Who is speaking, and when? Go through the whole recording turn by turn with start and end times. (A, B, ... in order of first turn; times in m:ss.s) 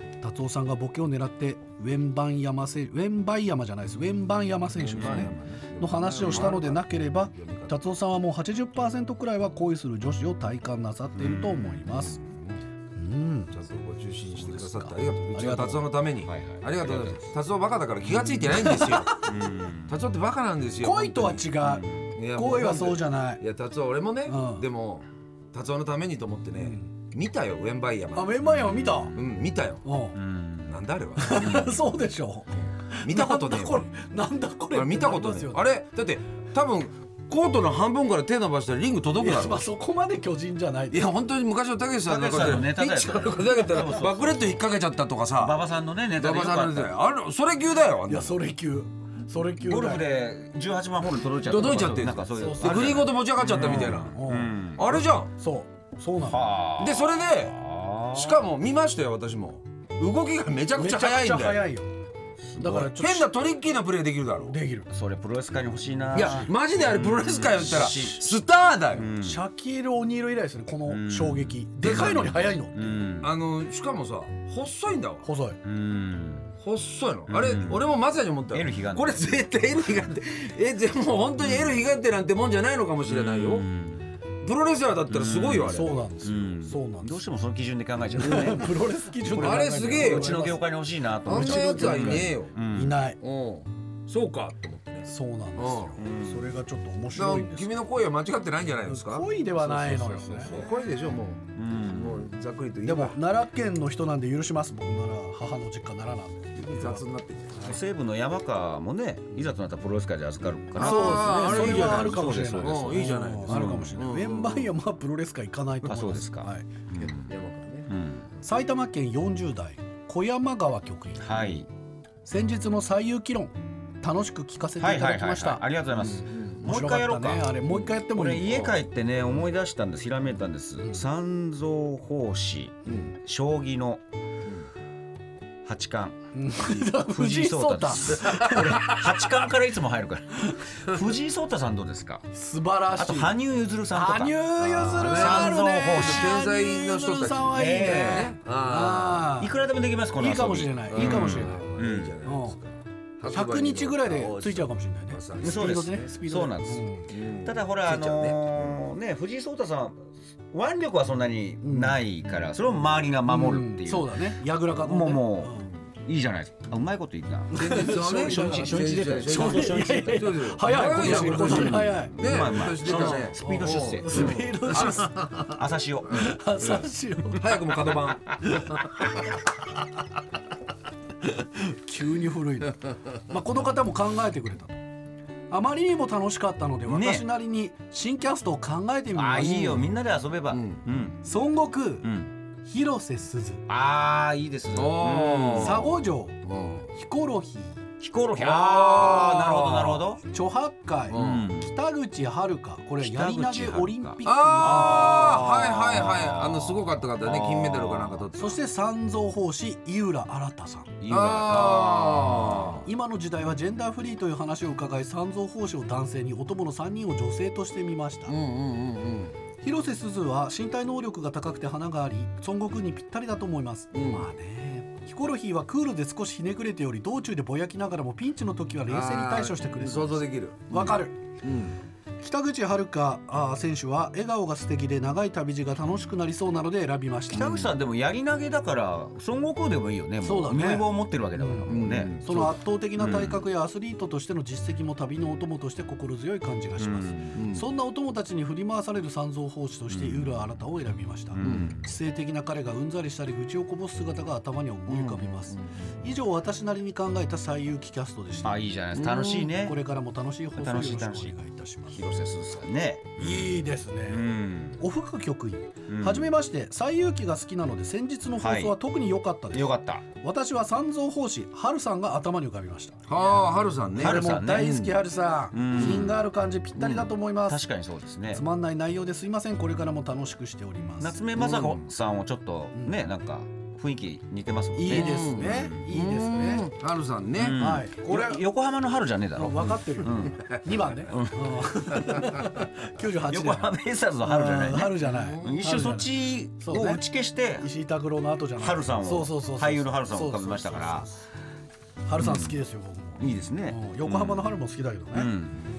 0:00.2-0:12.2 A
0:04.8-0:07.8 B
0:05.0-0:05.3 C
0:06.2-0:06.5 C
0:11.2-0:11.7 C
0:11.8-0:12.6 B
0:13.0-0:13.5 A
0:13.5-0:19.2 B
0:14.3-0:15.9 A
0:16.2-0:17.3 C
0:18.4-0:20.0 C
0:18.5-0:19.2 A
0:19.9-0:21.4 B
0:20.8-0:23.4 A
0:21.6-0:22.1 C
0:22.2-0:28.3 B
0:24.2-0:24.7 A
0:26.6-0:26.9 A
0:28.1-0:29.2 A
0:28.6-0:29.2 C
0:29.2-0:29.8 B
0:29.8-0:30.2 A
0:30.2-0:30.7 C
0:30.7-0:31.7 B
0:31.2-0:35.6 A
0:31.4-0:31.7 C
0:32.9-0:33.9 B
0:34.7-0:39.6 B
0:39.2-0:41.1 A
0:40.9-0:45.6 B
0:42.0-0:44.6 C
0:45.4-0:46.9 C
0:46.2-0:48.4 B
0:48.1-0:50.1 A
0:49.6-0:54.8 C
0:51.4-0:54.2 B
0:52.4-0:53.0 A
0:53.6-0:56.5 A
0:54.8-0:55.3 B
0:56.2-0:58.4 C
0:56.8-0:57.6 B
0:58.1-1:01.7 B
1:00.8-1:01.9 A
1:02.4-1:02.9 C
1:02.6-1:03.3 A
1:02.6-1:04.6 B
1:04.4-1:04.9 A
1:04.9-1:09.4 C
1:06.1-1:09.1 B
1:09.2-1:13.0 A
1:10.9-1:13.3 C
1:11.8-1:12.4 B
1:13.2-1:15.3 B
1:15.2-1:15.6 A
1:15.6-1:16.5 C
1:16.6-1:23.7 B
1:17.3-1:17.8 C
1:18.5-1:19.3 C
1:21.4-1:21.8 C
1:23.1-1:24.1 C
1:24.4-1:26.0 B
1:25.1-1:28.8 C
1:25.7-1:27.2 A
1:28.2-1:30.6 A
1:28.2-1:28.6 B
1:29.3-1:33.0 C
1:29.3-1:30.4 B
1:31.2-1:32.6 B
1:31.3-1:33.2 A
1:33.2-1:36.0 B
1:35.1-1:37.7 A
1:36.0-1:36.6 C
1:37.2-1:43.2 B
1:38.9-1:40.6 A
1:40.2-1:40.7 C
1:41.6-1:42.3 C
1:42.8-1:47.0 A
1:46.6-1:47.8 B
1:47.6-1:54.0 C
1:50.8-1:54.7 B
1:50.8-1:56.7 A
1:55.8-1:57.3 C
1:57.0-1:57.9 B
1:57.9-1:58.3 C
1:58.4-2:01.5 A
2:01.2-2:01.7 C
2:02.2-2:05.6 A
2:04.8-2:14.0 C
2:06.0-2:06.6 B
2:06.6-2:08.8 A
2:15.7-2:16.2 C
2:16.3-2:19.1 A
2:16.9-2:22.2 C
2:18.2-2:19.0 B
2:20.5-2:20.8 A
2:22.3-2:23.3 A
2:23.0-2:24.5 C
2:23.9-2:29.5 A
2:24.6-2:29.3 B
2:25.0-2:26.3 C
2:27.5-2:28.4 C
2:29.4-2:32.2 C
2:30.2-2:31.7 A
2:30.9-2:36.0 B
2:32.2-2:32.6 A
2:33.3-2:37.1 A
2:35.4-2:36.9 C
2:37.1-2:38.4 B
2:37.4-2:44.1 C
2:41.6-2:42.0 A
2:43.3-2:45.7 A
2:44.8-2:50.1 C
2:47.5-2:55.4 A
2:47.5-2:55.5 B
2:50.7-2:54.9 C
2:55.6-2:56.3 C
2:56.1-2:57.9 A
2:57.4-2:58.5 B
3:01.4-3:04.8 A
3:05.5-3:09.8 A
3:06.9-3:07.2 C
3:09.1-3:11.2 C
3:09.5-3:09.8 B
3:10.5-3:10.8 B
3:11.2-3:12.1 A
3:12.0-3:12.3 C
3:12.6-3:13.6 A
3:13.7-3:16.0 C
3:14.7-3:16.9 B
3:15.6-3:16.4 A
3:16.9-3:17.8 A
3:18.0-3:20.2 C
3:18.4-3:20.0 B
3:20.2-3:25.4 A
3:21.1-3:21.5 B
3:21.1-3:21.7 C
3:23.0-3:28.2 C
3:24.2-3:28.6 B
3:28.4-3:30.9 A
3:31.0-3:32.8 C
3:31.1-3:32.9 B
3:32.8-3:38.4 A
3:38.3-3:39.3 B
3:39.6-3:51.2 A
3:43.9-3:44.3 B
3:48.9-3:51.8 B
3:52.2-3:57.5 A
3:57.3-4:02.2 C
3:57.3-3:57.7 B
4:00.2-4:18.7 A
4:01.7-4:03.3 B
4:03.0-4:03.4 C
4:06.8-4:07.4 C
4:07.4-4:07.6 B
4:09.9-4:10.3 C
4:11.3-4:11.9 C
4:11.4-4:11.8 B
4:14.9-4:15.9 B
4:18.4-4:19.8 C
4:18.9-4:19.6 B
4:19.6-4:22.0 A
4:20.6-4:21.4 C
4:21.9-4:24.8 C
4:23.2-4:24.2 A
4:24.8-4:33.0 A
4:25.9-4:26.3 C
4:28.4-4:28.8 C
4:29.5-4:30.0 C
4:33.1-4:35.0 B
4:34.0-4:34.7 C
4:34.0-4:37.6 A
4:35.5-4:36.2 C
4:35.8-4:36.1 B
4:36.8-4:37.1 B
4:37.5-4:38.4 C
4:38.3-4:41.2 A
4:41.0-4:45.9 C
4:41.4-4:41.9 B
4:44.7-4:46.7 A
4:44.9-4:47.6 B
4:47.4-4:50.4 C
4:47.6-4:48.4 A
4:49.4-4:57.0 A
4:51.1-4:52.1 C
4:53.3-4:57.7 C
4:55.0-4:55.7 B
4:57.6-5:01.3 A
4:58.6-5:01.1 C
5:02.1-5:05.3 A
5:02.2-5:02.6 C
5:03.2-5:04.5 C
5:05.1-5:05.6 C